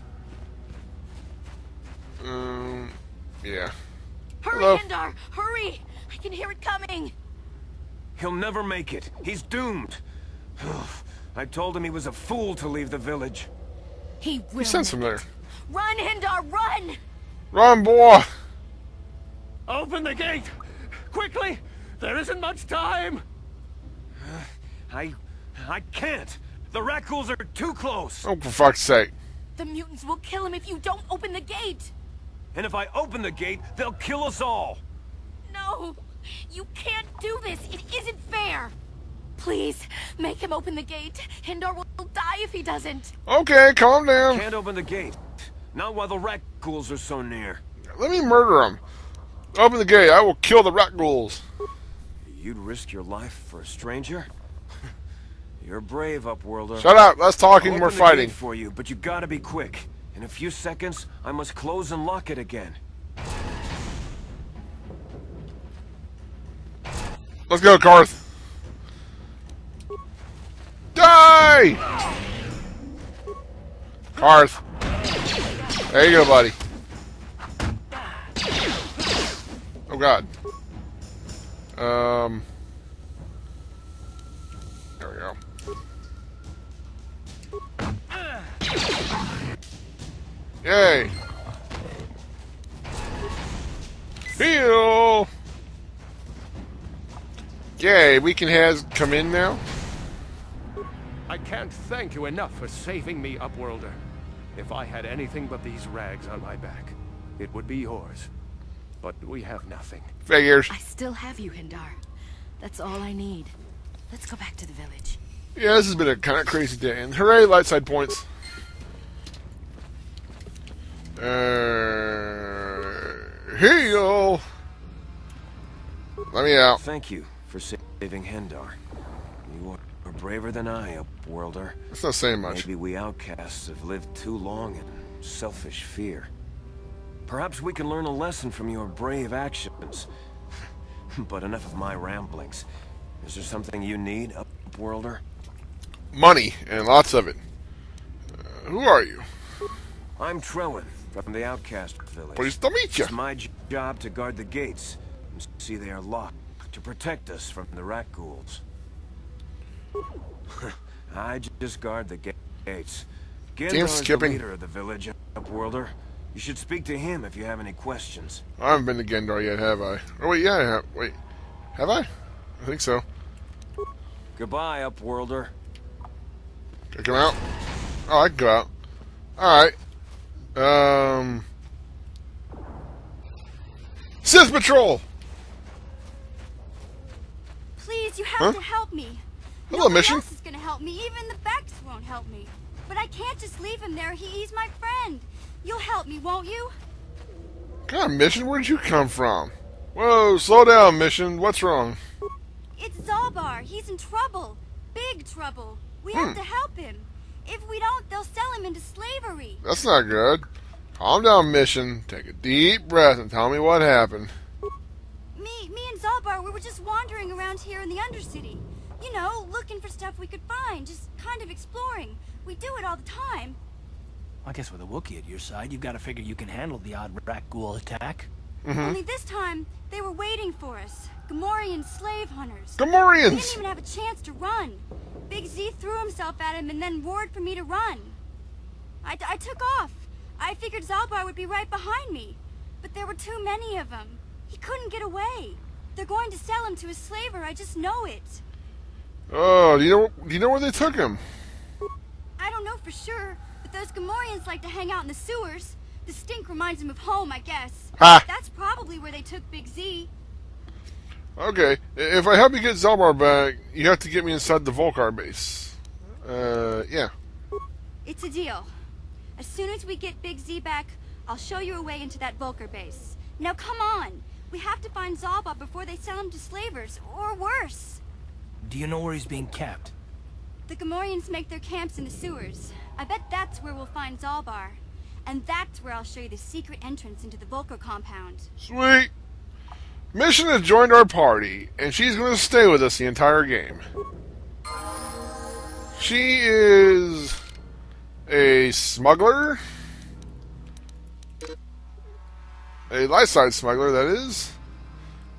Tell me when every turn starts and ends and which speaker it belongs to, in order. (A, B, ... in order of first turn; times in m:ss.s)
0:02.2-0:03.7 A
0:04.4-0:07.1 B
0:04.5-0:04.8 A
0:08.2-0:10.0 C
0:10.6-0:13.5 C
0:14.2-0:17.0 B
0:14.6-0:15.2 A
0:17.5-0:18.3 A
0:19.7-0:20.5 D
0:21.1-0:23.2 D
0:24.2-0:28.3 C
0:28.2-0:29.1 A
0:29.6-0:31.9 B
0:32.5-0:34.8 C
0:35.4-0:38.7 B
0:39.4-0:43.1 B
0:43.3-0:44.4 A
0:44.2-0:47.6 C
0:47.9-0:48.8 A
0:49.5-0:51.4 A
0:52.2-0:54.3 C
0:55.6-0:57.0 C
0:56.8-0:58.4 A
0:57.6-1:02.8 C
1:07.5-1:08.2 A
1:10.9-1:11.8 A
1:14.1-1:14.6 A
1:15.9-1:16.6 A
1:19.9-1:20.3 A
1:21.7-1:22.4 A
1:25.0-1:25.4 A
1:30.6-1:31.1 A
1:34.3-1:35.3 A
1:37.8-1:39.6 A
1:41.3-1:44.0 D
1:44.6-1:48.3 D
1:49.0-1:50.0 D
1:50.2-1:50.7 A
1:50.7-1:52.0 B
1:52.6-1:53.5 B
1:54.1-1:55.2 B
1:55.5-1:58.2 A
2:01.2-2:04.4 A
2:06.3-2:06.8 A
2:06.8-2:08.8 C
2:09.4-2:11.8 C
2:11.9-2:12.7 A
2:12.5-2:16.3 C
2:17.2-2:20.1 C
2:21.1-2:22.6 C
2:23.2-2:25.2 C
2:26.1-2:27.4 A
2:28.5-2:29.2 A
2:30.2-2:38.6 C
2:32.3-2:33.1 A
2:41.1-2:48.4 C
2:43.7-2:44.4 A
2:48.6-2:51.2 A
2:51.7-2:53.0 A
2:54.4-2:55.5 C
2:56.9-2:57.4 A
2:58.1-2:58.7 A
2:59.4-2:59.8 A
3:00.5-3:01.4 A
3:04.2-3:05.0 A
3:07.8-3:16.8 E
3:09.7-3:10.2 A
3:17.8-3:22.0 A
3:22.7-3:29.6 E
3:26.1-3:26.4 A
3:29.6-3:30.4 A
3:31.0-3:34.3 A
3:35.3-3:43.6 E
3:44.4-3:48.3 F
3:48.6-3:49.0 A
3:48.8-3:58.2 E
3:52.8-3:53.6 A
3:59.0-4:08.4 E
4:09.3-4:11.2 A
4:12.4-4:20.1 E
4:18.0-4:18.2 A
4:21.4-4:27.1 A
4:28.0-4:28.7 E
4:29.4-4:38.0 E
4:38.6-4:39.9 F
4:40.7-4:48.5 E
4:48.6-4:49.1 A
4:50.1-4:53.8 A
4:56.0-4:57.4 A
4:58.3-4:59.6 A
5:02.9-5:04.5 A